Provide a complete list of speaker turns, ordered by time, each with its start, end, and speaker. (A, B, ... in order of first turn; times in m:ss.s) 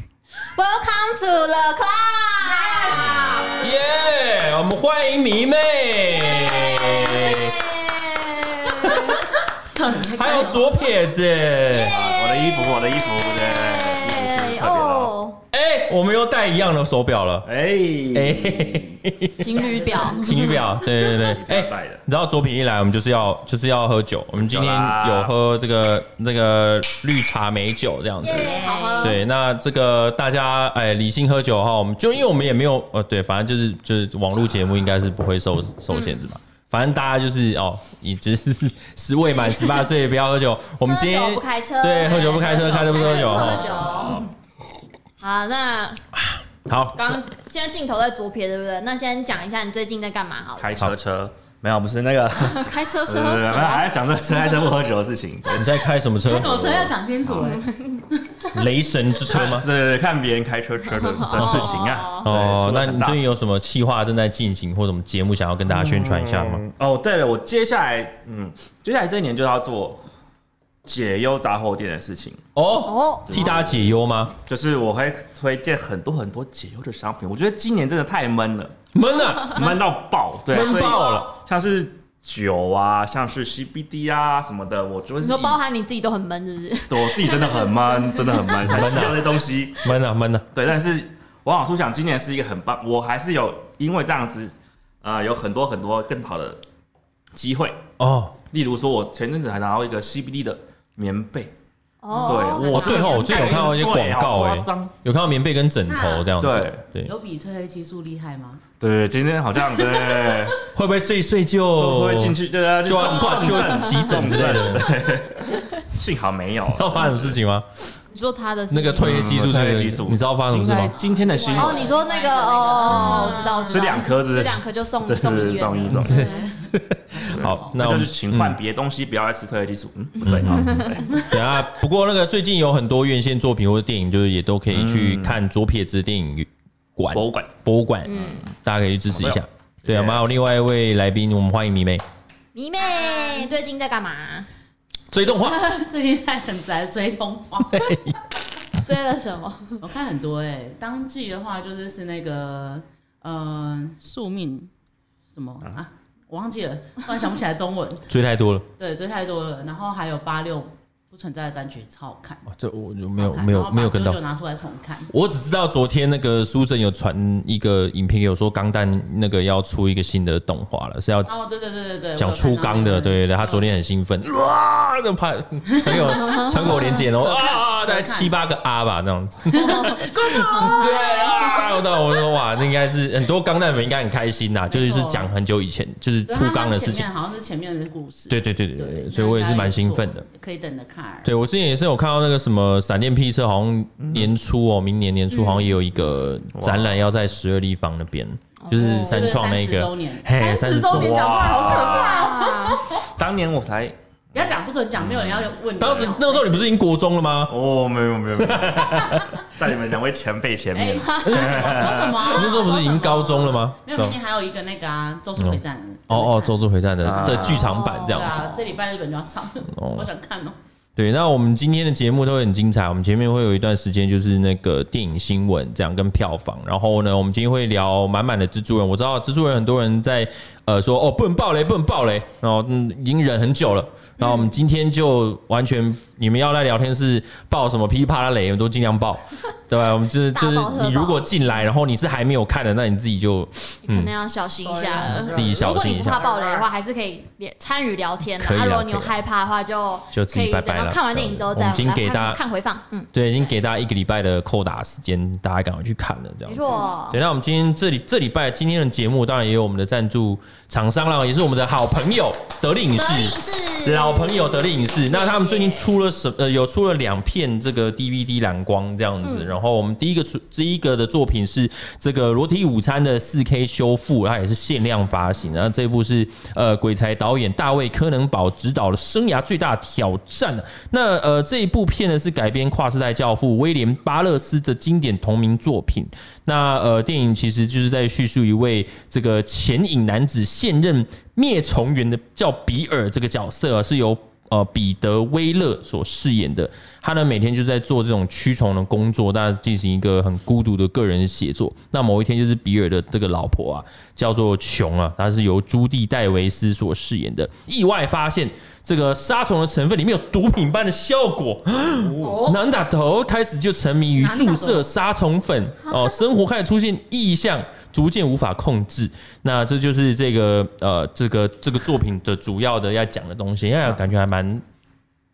0:00.5-0:03.6 A
0:03.6-0:07.6 B
0:06.2-0:09.2 A
0:08.8-0:09.2 B
0:09.7-0:10.9 C
0:10.0-0:12.0 B
0:11.7-0:15.4 A
0:11.8-0:15.1 D
0:15.5-0:17.5 B
0:17.4-0:18.9 D
0:18.1-0:44.2 B
0:19.4-0:20.4 A
0:19.5-0:20.6 C
0:20.3-0:22.0 D
0:24.4-0:25.3 D
0:28.2-0:29.2 A
0:28.2-0:29.2 C
0:35.9-0:36.2 A
0:39.2-0:39.9 A
0:40.9-0:44.3 A
0:43.2-0:44.2 D
0:45.2-0:46.1 A
0:46.1-0:47.2 B
0:47.0-0:50.8 A
0:50.6-0:55.9 D
0:52.4-0:53.9 A
0:55.5-0:56.9 B
0:56.2-0:57.7 C
0:57.4-0:58.1 A
0:58.5-0:59.7 B
0:59.2-1:03.2 D
1:00.9-1:02.3 A
1:01.3-1:06.6 B
1:05.7-1:10.0 D
1:10.8-1:12.4 D
1:12.5-1:14.3 B
1:12.8-1:13.4 A
1:13.3-1:13.9 D
1:14.4-1:18.8 D
1:18.9-1:19.7 B
1:19.5-1:25.6 D
1:20.5-1:21.3 B
1:20.5-1:21.2 A
1:25.2-1:29.1 A
1:26.9-1:29.8 D
1:28.6-1:30.4 B
1:30.5-1:36.6 D
1:37.3-1:37.8 D
1:38.0-1:38.4 B
1:38.5-1:41.5 D
1:42.0-1:43.8 A
1:42.1-1:44.9 D
1:42.1-1:42.6 C
1:42.6-1:47.1 B
1:45.9-1:46.3 C
1:46.4-1:46.8 D
1:47.0-1:48.6 C
1:48.8-1:50.6 D
1:50.0-1:50.3 C
1:50.6-1:55.0 B
1:51.8-1:57.4 D
1:53.5-1:54.0 A
1:56.7-1:57.6 B
1:58.1-1:59.3 A
1:58.7-2:01.0 B
1:59.0-2:02.0 D
2:00.9-2:04.1 C
2:01.5-2:06.5 A
2:02.9-2:06.2 D
2:05.9-2:08.6 B
2:06.0-2:07.8 C
2:07.3-2:11.4 D
2:10.2-2:10.9 A
2:10.2-2:22.0 B
2:14.7-2:15.4 D
2:17.1-2:17.5 D
2:18.0-2:18.5 A
2:19.1-2:20.2 D
2:22.5-2:24.5 A
2:23.0-2:23.3 C
2:25.1-2:25.7 B
2:25.6-2:28.0 C
2:27.7-2:28.2 B
2:28.8-2:29.8 A
2:29.8-2:34.7 C
2:35.3-2:38.1 C
2:38.1-2:38.6 B
2:38.8-2:42.5 C
2:42.5-2:44.2 B
2:43.1-2:45.1 C
2:45.1-2:51.3 B
2:51.2-2:53.7 C
2:52.2-3:07.1 B
2:55.7-2:58.4 C
2:56.3-2:56.8 A
2:59.5-3:01.6 C
3:00.5-3:01.7 A
3:04.7-3:05.3 C
3:06.3-3:11.3 C
3:08.3-3:10.2 B
3:11.2-3:21.6 B
3:14.0-3:14.3 D
3:15.3-3:15.7 A
3:16.5-3:17.0 D
3:18.6-3:19.4 A
3:19.0-3:23.1 C
3:20.9-3:22.3 D
3:21.6-3:22.8 A
3:23.0-3:24.0 D
3:24.3-3:26.7 C
3:25.0-3:25.9 D
3:25.8-3:27.5 B
3:27.5-3:32.3 D
3:28.4-3:29.3 B
3:30.7-3:36.6 C
3:31.0-3:31.8 A
3:31.2-3:34.1 B
3:35.4-3:38.6 B
3:37.0-3:37.8 D
3:37.3-3:38.4 A
3:37.7-3:40.6 C
3:39.7-3:40.1 B
3:41.0-4:04.1 B
3:54.2-3:54.5 A
4:00.3-4:01.3 A
4:03.9-4:13.1 A
4:04.6-4:05.9 C
4:05.0-4:06.6 D
4:05.3-4:06.2 B
4:08.4-4:09.2 B
4:10.1-4:12.4 B
4:13.1-5:24.6 B
4:16.5-4:17.2 A
4:22.9-4:25.9 A
4:29.2-4:29.5 A
5:11.9-5:12.4 D
5:12.2-5:12.6 C
5:14.2-5:14.9 C
5:15.9-5:16.2 A